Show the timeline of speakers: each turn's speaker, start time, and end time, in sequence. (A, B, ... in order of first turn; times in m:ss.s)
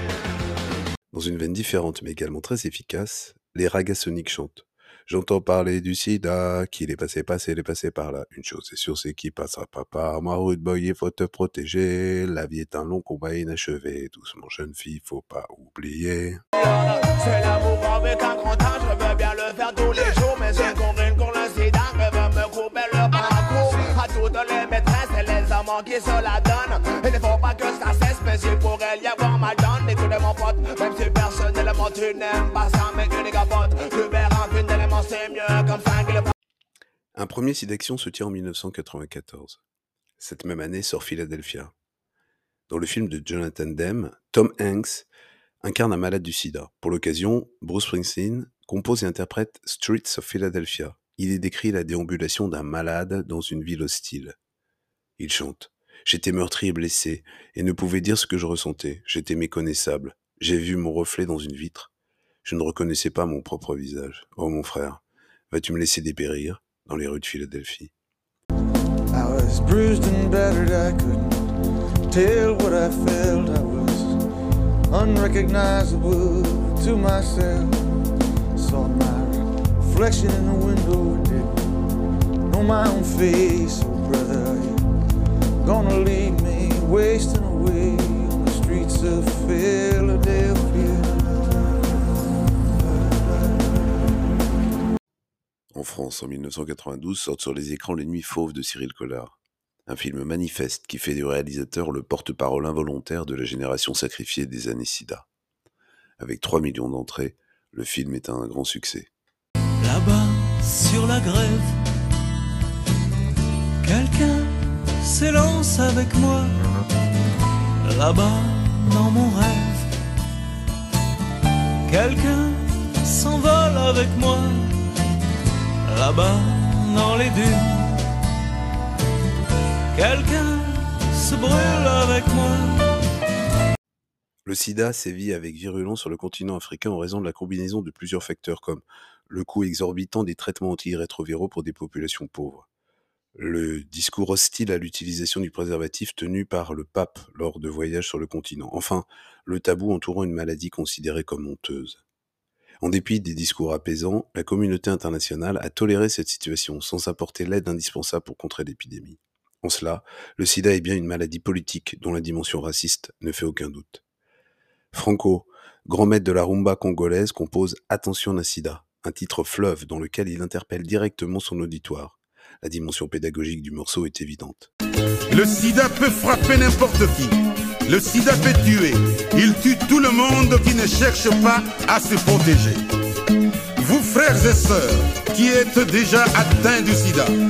0:01.1-0:16.4 A
0:16.6-0:36.3 B
0:37.2-0:39.6 A
0:40.2-0:41.7 A
0:42.7-0:45.1 A
0:45.6-0:54.4 A
0:55.2-1:01.9 A
1:02.4-1:07.9 A
1:09.1-1:11.5 C
1:12.1-1:14.2 C
1:14.9-1:17.7 C
1:18.5-1:21.6 C
1:22.5-1:24.8 C
1:25.6-1:32.0 C
1:32.8-1:34.2 C
1:35.7-1:39.4 A
1:39.9-1:45.3 A
1:46.2-1:49.1 A
1:49.8-1:51.8 D
1:53.8-1:56.5 D
1:57.8-1:59.9 D
2:01.8-2:04.8 D
2:05.8-2:08.0 D
2:09.9-2:12.9 D
2:14.4-2:22.7 A
2:23.4-2:32.0 A
2:32.8-2:44.0 A
2:44.9-2:54.7 A
2:55.3-3:02.8 E
3:03.8-3:07.3 E